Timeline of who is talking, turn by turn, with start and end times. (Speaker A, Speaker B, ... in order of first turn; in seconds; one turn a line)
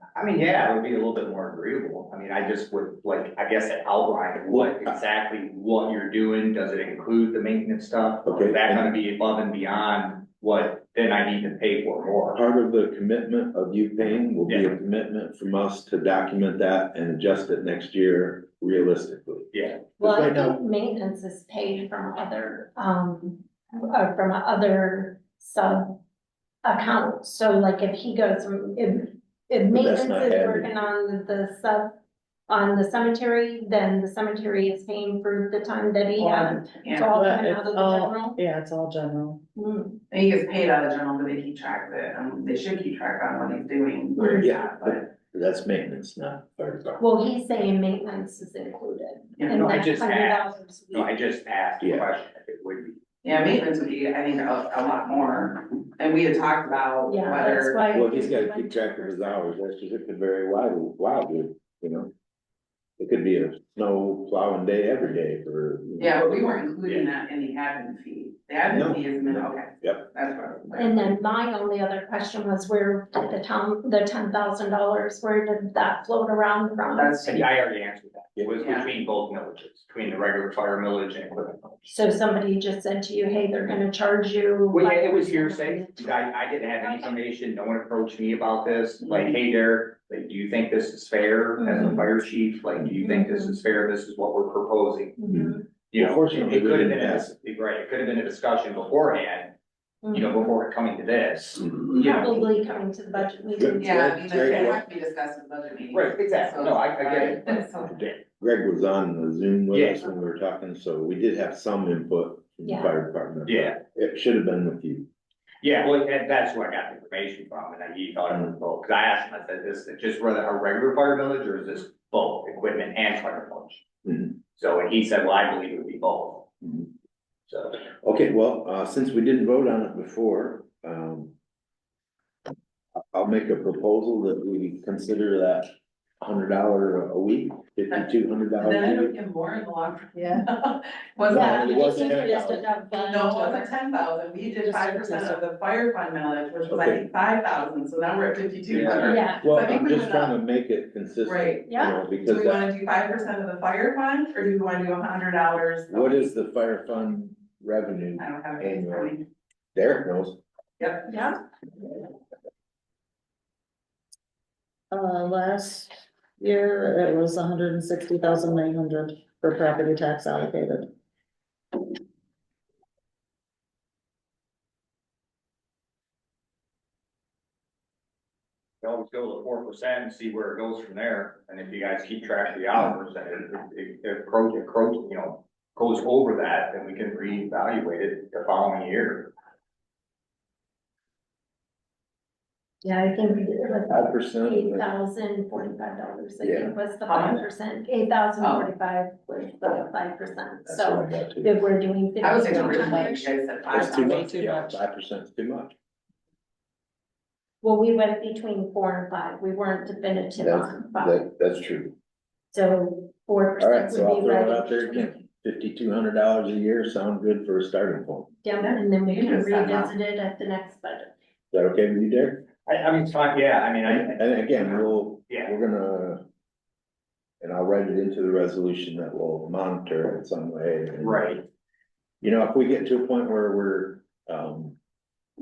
Speaker A: 0.1-12.4
Speaker B: 4.5-4.9
Speaker B: 8.2-8.8
Speaker B: 12.3-19.5
Speaker A: 14.5-14.7
Speaker A: 19.5-19.8
Speaker C: 20.0-26.0
Speaker B: 20.0-20.6
Speaker C: 26.6-32.0
Speaker B: 29.7-30.7
Speaker C: 32.5-38.4
Speaker D: 36.2-39.4
Speaker E: 36.8-37.1
Speaker C: 39.5-40.0
Speaker E: 40.1-45.0
Speaker C: 44.2-44.5
Speaker B: 44.3-47.0
Speaker C: 47.0-51.1
Speaker A: 49.5-53.0
Speaker B: 51.8-52.1
Speaker E: 53.2-57.8
Speaker C: 57.1-59.5
Speaker B: 57.9-62.1
Speaker B: 63.0-66.5
Speaker E: 66.0-71.1
Speaker B: 68.7-70.1
Speaker C: 70.8-77.2
Speaker A: 76.9-81.9
Speaker E: 78.6-78.9
Speaker C: 81.9-86.1
Speaker A: 84.7-95.2
Speaker C: 86.8-87.1
Speaker C: 91.6-92.1
Speaker C: 93.0-93.6
Speaker C: 95.2-95.6
Speaker B: 95.3-97.3
Speaker A: 95.8-99.5
Speaker C: 100.0-100.4
Speaker A: 100.1-102.8
Speaker C: 101.9-104.2
Speaker B: 103.6-104.8
Speaker E: 103.8-108.0
Speaker A: 104.4-104.7
Speaker A: 105.9-108.2
Speaker B: 108.2-115.1
Speaker A: 109.7-110.0
Speaker C: 112.6-112.9
Speaker A: 113.5-113.8
Speaker A: 115.6-123.8
Speaker B: 124.0-124.3
Speaker A: 124.5-126.5
Speaker B: 126.6-126.9
Speaker A: 127.5-127.8
Speaker B: 128.0-131.3
Speaker B: 133.1-139.2
Speaker E: 138.6-141.8
Speaker D: 140.2-140.5
Speaker B: 141.3-142.7
Speaker C: 141.3-143.7
Speaker D: 141.5-143.6
Speaker E: 143.0-150.3
Speaker D: 144.6-145.4
Speaker B: 146.7-147.0
Speaker A: 148.7-149.3
Speaker C: 149.0-149.4
Speaker B: 149.4-152.7
Speaker E: 151.2-151.7
Speaker C: 151.7-151.9
Speaker E: 152.2-156.3
Speaker B: 155.9-159.2
Speaker E: 158.2-159.3
Speaker B: 159.7-160.4
Speaker E: 160.8-161.2
Speaker C: 161.1-161.4
Speaker D: 164.9-170.9
Speaker A: 178.8-189.3
Speaker C: 192.8-203.1
Speaker B: 193.5-194.9
Speaker B: 196.4-196.7
Speaker E: 197.1-197.4
Speaker E: 198.4-198.7
Speaker B: 200.7-201.5
Speaker E: 202.2-204.2
Speaker D: 202.4-203.2
Speaker B: 203.7-205.7
Speaker A: 204.1-204.5
Speaker C: 207.6-211.2
Speaker B: 210.4-211.9
Speaker C: 212.5-215.2
Speaker B: 213.6-218.3
Speaker C: 218.4-221.1
Speaker E: 218.6-219.9
Speaker B: 221.5-222.4
Speaker A: 222.7-225.5
Speaker B: 223.9-226.2
Speaker B: 227.4-231.4
Speaker A: 231.0-231.4
Speaker B: 232.2-234.8